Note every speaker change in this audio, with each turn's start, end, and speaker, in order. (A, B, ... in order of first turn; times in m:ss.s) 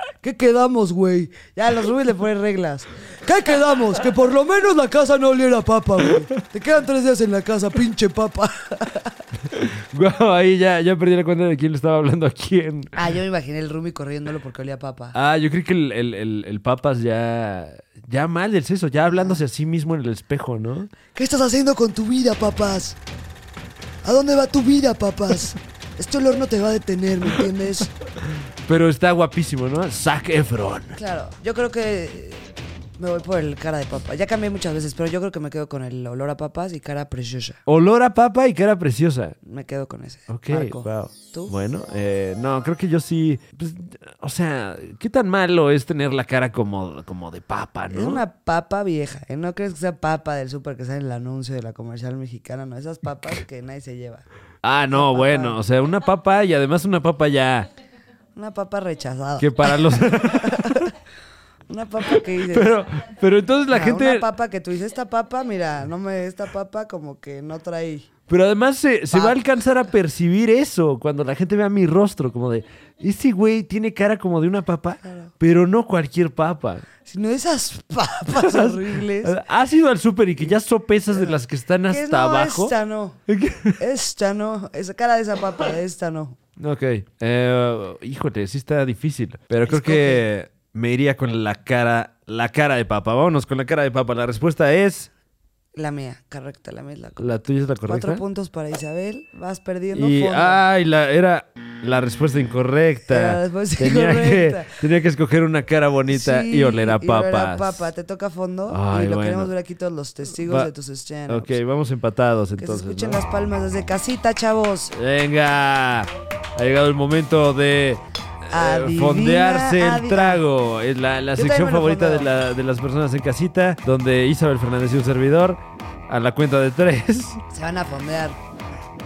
0:00.2-0:09.2 A
0:09.5-0:13.0 B
0:12.9-0:15.2 A
0:15.1-0:20.9 B
0:21.1-0:23.0 A
0:24.0-0:27.9 A
0:28.6-0:31.0 B
0:30.9-0:37.6 A
0:37.6-0:39.4 B
0:39.4-0:41.5 A
0:40.3-0:48.2 B
0:47.9-0:54.2 A
0:54.6-0:57.7 B
0:54.9-0:55.6 A
0:58.3-1:00.9 A
0:59.4-1:00.9 B
1:01.7-1:02.8 A
1:02.1-1:04.2 B
1:03.7-1:08.1 A
1:08.3-1:16.8 B
1:09.1-1:09.4 A
1:15.0-1:15.3 A
1:17.0-1:19.4 A
1:18.3-1:22.7 B
1:21.1-1:23.2 A
1:23.3-1:23.8 B
1:23.8-1:26.4 A
1:26.6-1:35.1 B
1:29.6-1:30.2 A
1:35.8-1:37.3 A
1:37.2-1:38.2 B
1:37.8-1:40.6 A
1:39.9-1:47.9 B
1:43.1-1:44.8 A
1:46.1-1:51.6 A
1:48.7-1:49.5 B
1:50.3-1:50.7 B
1:51.3-1:53.2 B
1:52.6-1:54.9 A
1:54.9-2:07.4 B
1:58.5-2:00.4 A
2:01.3-2:02.3 A
2:07.5-2:08.4 A